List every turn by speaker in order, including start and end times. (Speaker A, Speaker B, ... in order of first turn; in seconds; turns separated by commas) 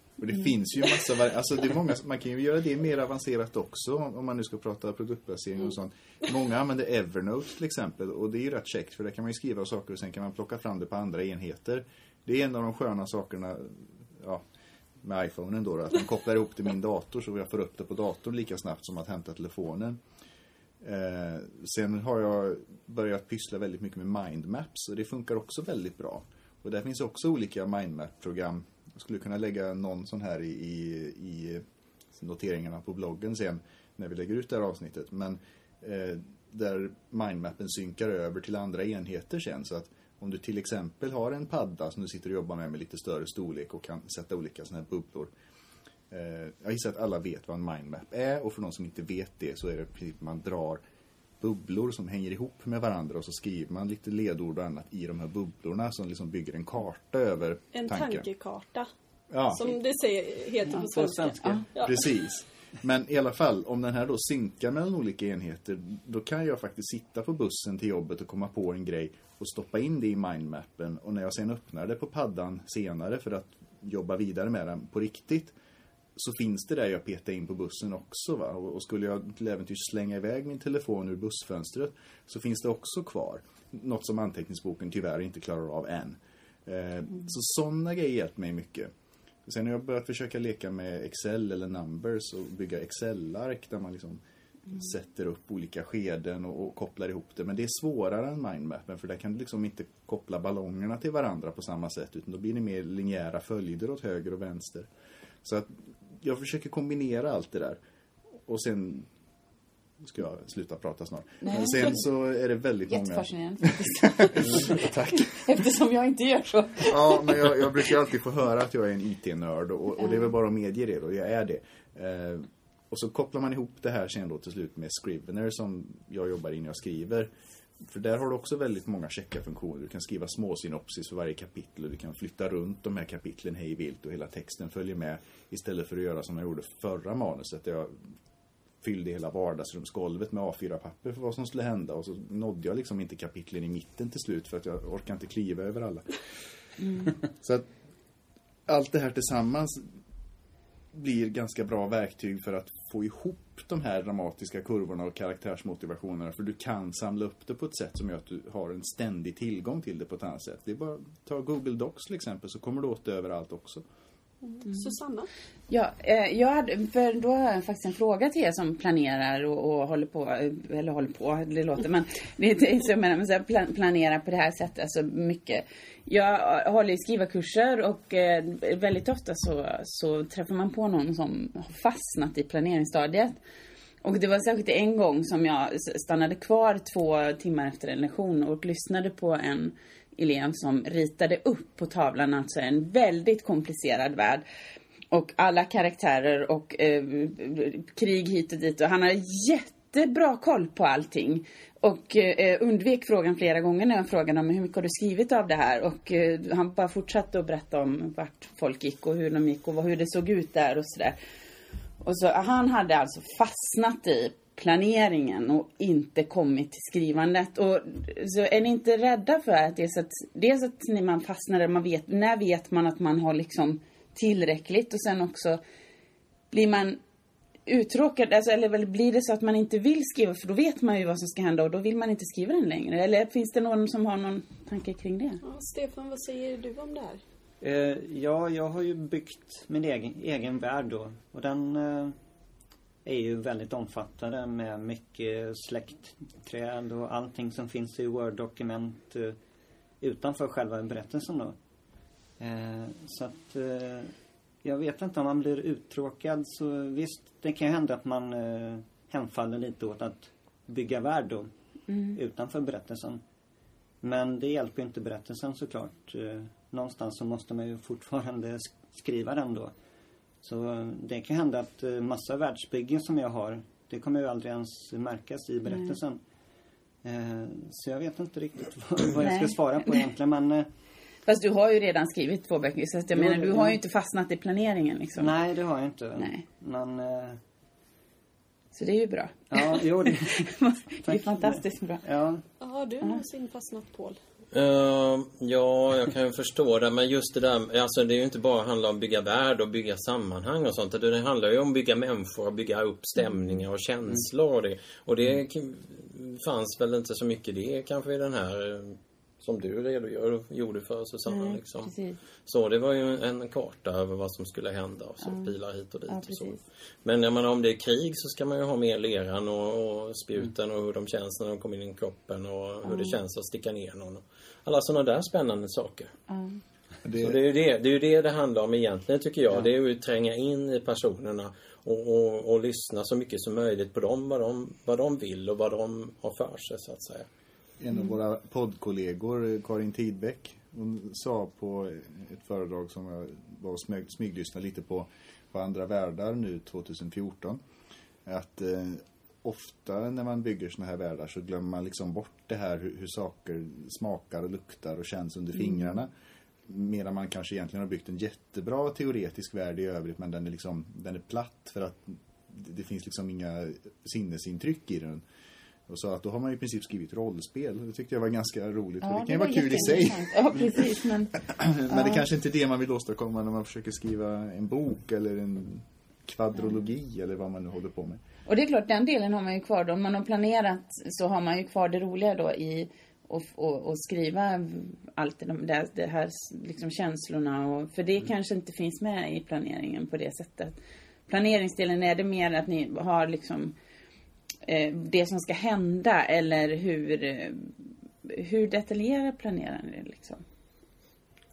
Speaker A: 0.2-14.5, Speaker A: 15.0-20.0, Speaker A: 20.8-45.3, Speaker A: 46.1-50.8, Speaker A: 51.4-58.3, Speaker B: 57.7-58.9, Speaker A: 59.3-59.7, Speaker B: 59.5-62.1, Speaker C: 60.8-61.6, Speaker A: 61.8-75.5, Speaker A: 76.2-88.9, Speaker A: 89.5-104.9, Speaker A: 105.4-107.8, Speaker A: 108.3-109.1, Speaker A: 110.0-115.5, Speaker D: 111.4-112.0, Speaker D: 112.9-117.6, Speaker A: 116.8-127.3, Speaker A: 127.8-138.0, Speaker A: 138.8-146.2, Speaker D: 146.8-147.1, Speaker A: 147.3-147.7, Speaker A: 148.7-149.9, Speaker A: 150.9-163.8, Speaker B: 164.4-165.3, Speaker D: 164.7-165.0, Speaker D: 165.7-183.4, Speaker D: 184.0-194.4, Speaker D: 195.1-211.2, Speaker D: 212.0-225.6, Speaker D: 226.5-227.0, Speaker D: 227.7-235.4, Speaker B: 235.4-237.2, Speaker C: 237.6-242.2, Speaker C: 243.1-249.3, Speaker C: 250.0-251.6, Speaker C: 252.4-261.5, Speaker D: 261.9-262.2, Speaker C: 262.1-263.2, Speaker C: 264.0-269.7, Speaker C: 270.4-276.2, Speaker D: 275.7-276.0, Speaker C: 277.0-280.7, Speaker D: 279.2-280.0, Speaker D: 281.3-285.3, Speaker C: 283.1-283.8, Speaker C: 285.2-287.4, Speaker D: 286.2-286.4, Speaker D: 288.7-292.0, Speaker C: 289.5-290.5, Speaker C: 291.1-292.4, Speaker B: 292.6-294.2, Speaker E: 294.5-311.9, Speaker D: 311.3-312.2, Speaker E: 312.5-326.1, Speaker D: 315.2-315.5, Speaker D: 316.1-316.6, Speaker D: 322.9-323.2, Speaker D: 326.3-326.6, Speaker A: 327.0-327.4, Speaker E: 327.2-337.3, Speaker A: 337.8-347.6, Speaker A: 348.2-356.1, Speaker A: 356.7-365.2, Speaker A: 365.9-378.2, Speaker D: 369.0-371.4, Speaker D: 371.9-372.2, Speaker D: 378.5-390.8, Speaker D: 391.3-393.8, Speaker D: 394.6-400.4